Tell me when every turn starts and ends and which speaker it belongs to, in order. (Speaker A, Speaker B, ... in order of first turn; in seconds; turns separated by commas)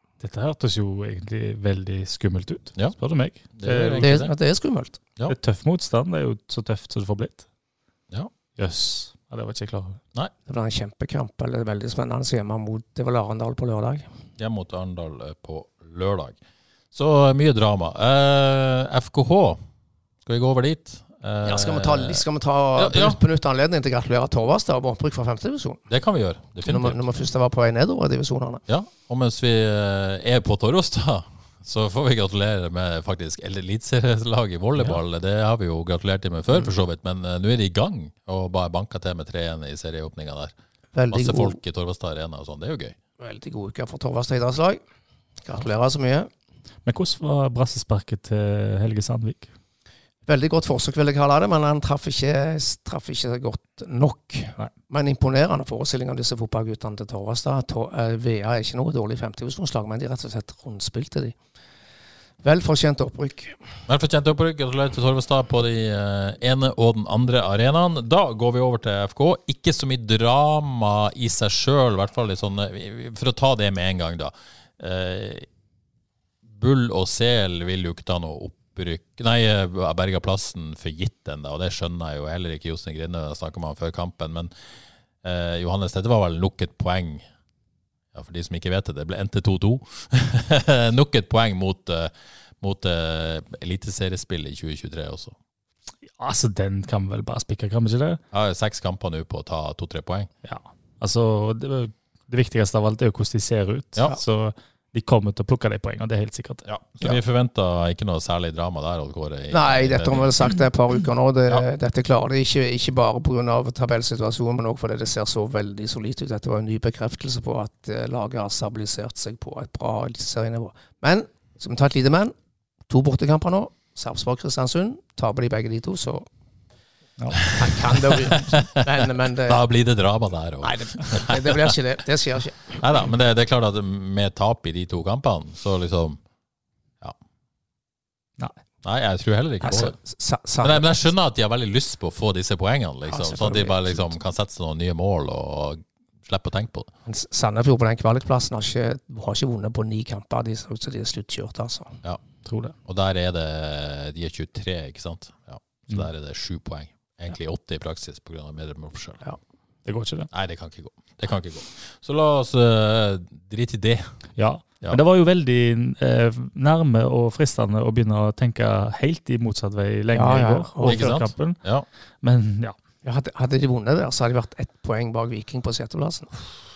Speaker A: 0.2-4.1, Speaker B: 3.5-4.3, Speaker C: 4.0-5.0, Speaker A: 5.3-7.5, Speaker A: 8.6-10.0, Speaker C: 10.5-14.1, Speaker B: 14.4-16.4, Speaker B: 16.9-19.6, Speaker B: 20.2-22.2, Speaker C: 21.4-25.8, Speaker B: 22.8-23.2, Speaker B: 25.9-27.0, Speaker C: 26.6-28.6, Speaker B: 28.7-40.5, Speaker C: 40.9-41.6, Speaker B: 41.1-43.0, Speaker C: 43.2-44.8, Speaker C: 45.4-46.3, Speaker A: 46.9-49.5, Speaker C: 50.3-61.3, Speaker C: 62.4-63.6, Speaker B: 63.9-75.5, Speaker B: 76.5-84.5, Speaker B: 85.2-87.2, Speaker B: 88.1-95.3, Speaker A: 96.2-98.2, Speaker B: 98.3-100.3, Speaker A: 100.4-106.6, Speaker B: 106.6-110.3, Speaker C: 109.5-122.3, Speaker C: 122.9-126.2, Speaker B: 127.4-131.7, Speaker C: 127.4-129.6, Speaker C: 130.6-132.8, Speaker B: 132.8-136.2, Speaker B: 138.8-139.9, Speaker C: 139.6-141.0, Speaker B: 140.6-146.9, Speaker C: 143.1-144.1, Speaker C: 147.1-152.0, Speaker A: 152.4-152.7, Speaker B: 152.8-159.2, Speaker A: 159.8-160.3, Speaker B: 160.3-164.1, Speaker A: 164.4-171.6, Speaker C: 170.1-171.1, Speaker B: 170.8-171.9, Speaker A: 172.2-172.8, Speaker C: 173.0-176.4